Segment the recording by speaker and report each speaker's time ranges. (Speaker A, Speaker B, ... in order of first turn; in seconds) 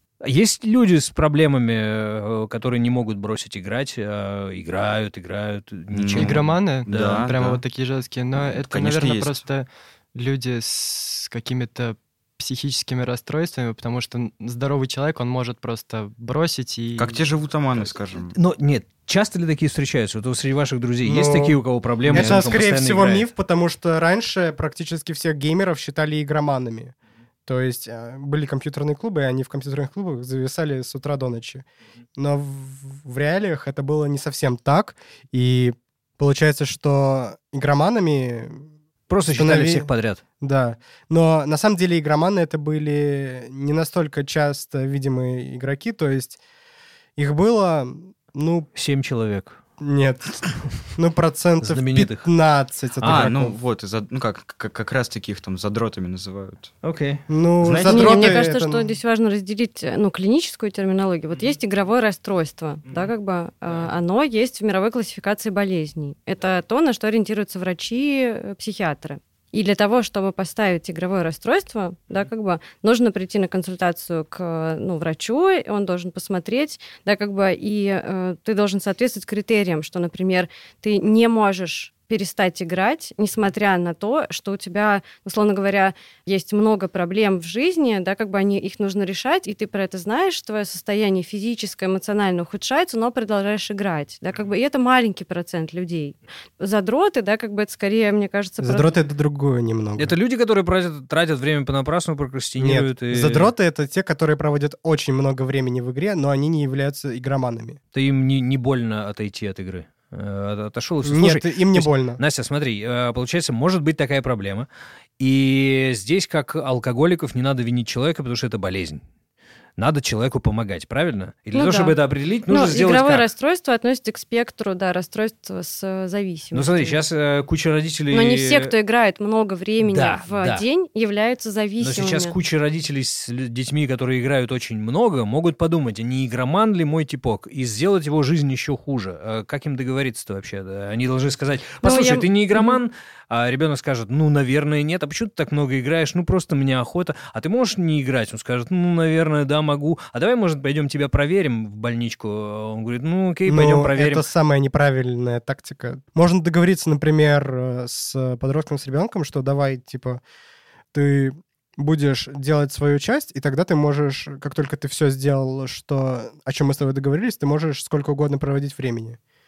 Speaker A: 0.2-7.3, 18.3-23.3, 39.1-40.2, 48.7-49.6, 51.6-52.3, 53.0-53.3, 56.8-57.2, 100.0-103.5, 107.9-114.7, 115.2-119.0, 119.8-123.3, 126.5-128.7, 129.8-130.6, 131.8-154.2
Speaker B: 5.9-7.6, 8.4-9.4, 16.9-18.3, 53.0-56.7, 57.6-58.3
Speaker C: 6.1-17.2, 22.1-22.5
Speaker D: 21.0-26.9, 27.4-31.6, 32.2-38.6, 39.3-39.9, 40.4-46.4, 47.2-48.7, 49.8-50.4, 50.9-53.5, 57.3-58.9, 98.6-100.1, 102.6-107.8, 111.0-112.2, 153.5-160.2, 160.9-169.2
Speaker E: 57.8-98.9, 121.5-127.0, 128.1-132.3, 141.8-142.8